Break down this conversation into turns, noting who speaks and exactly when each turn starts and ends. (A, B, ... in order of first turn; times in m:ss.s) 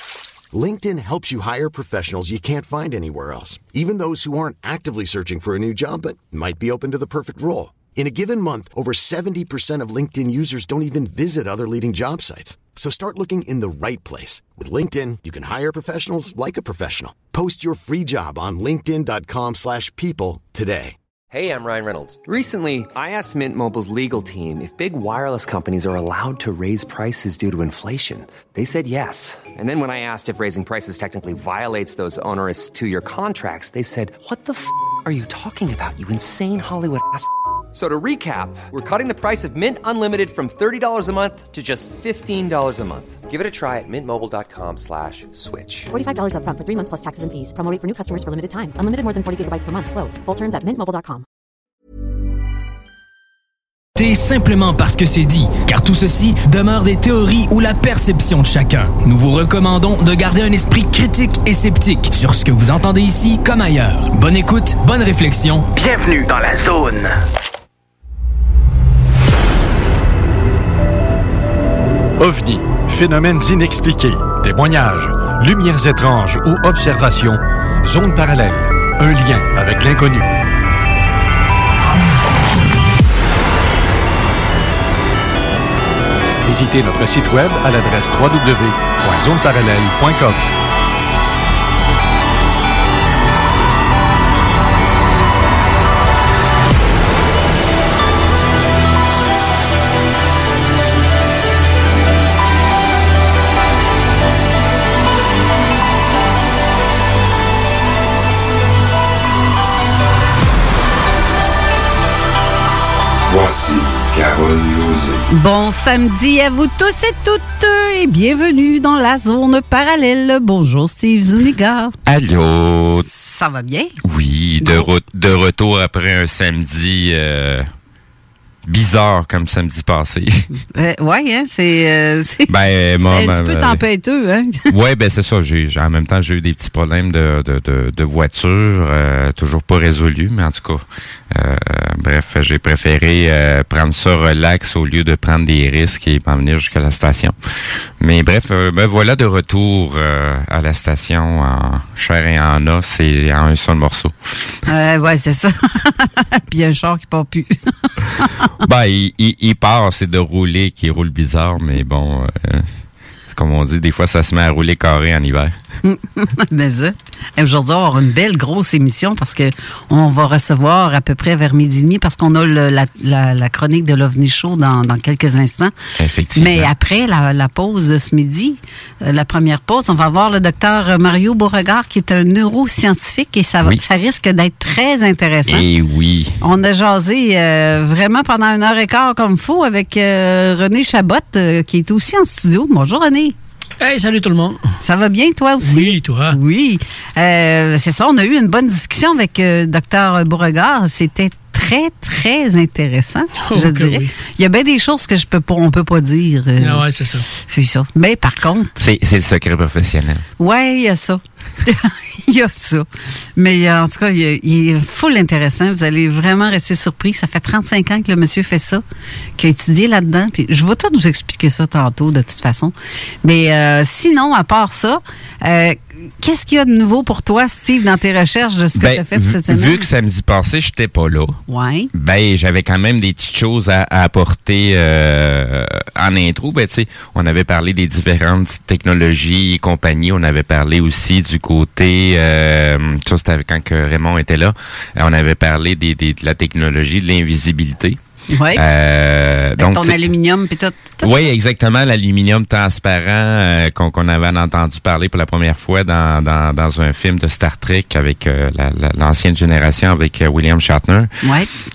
0:00.5-0:21.0 A
0:21.3-0:45.9 B
0:45.9-0:51.2 C
0:54.0-1:07.1 D
1:12.2-1:20.3 E
1:26.4-1:30.4 E
1:53.2-1:55.2 F
1:55.3-2:01.9 G
2:02.0-2:03.1 F
2:03.1-2:03.9 G
2:04.0-2:07.7 F
2:04.6-2:04.9 G
2:08.6-2:10.4 F
2:10.7-2:12.5 G
2:12.5-2:13.8 F
2:13.0-2:14.7 G
2:14.7-2:27.3 F
2:28.0-2:34.1 F
2:34.7-2:38.5 G
2:38.6-2:42.7 F
2:43.3-2:45.5 F
2:45.8-2:55.7 G
2:56.0-2:56.7 F
2:56.4-3:05.6 G
3:05.5-3:06.4 F
3:06.4-3:13.4 G
3:13.8-3:14.6 H
3:14.8-3:26.8 G
3:15.6-3:16.4 H
3:23.4-3:24.1 H
3:26.6-3:27.3 H
3:27.5-3:28.8 G
3:28.8-3:30.2 F
3:30.4-3:38.8 G
3:39.4-3:49.8 G
3:48.8-3:51.4 F
3:51.5-3:51.9 G
3:51.9-4:08.0 F
4:08.3-4:08.6 G
4:08.5-4:10.1 F
4:09.6-4:11.3 G
4:11.0-4:21.1 F
4:21.2-4:21.5 G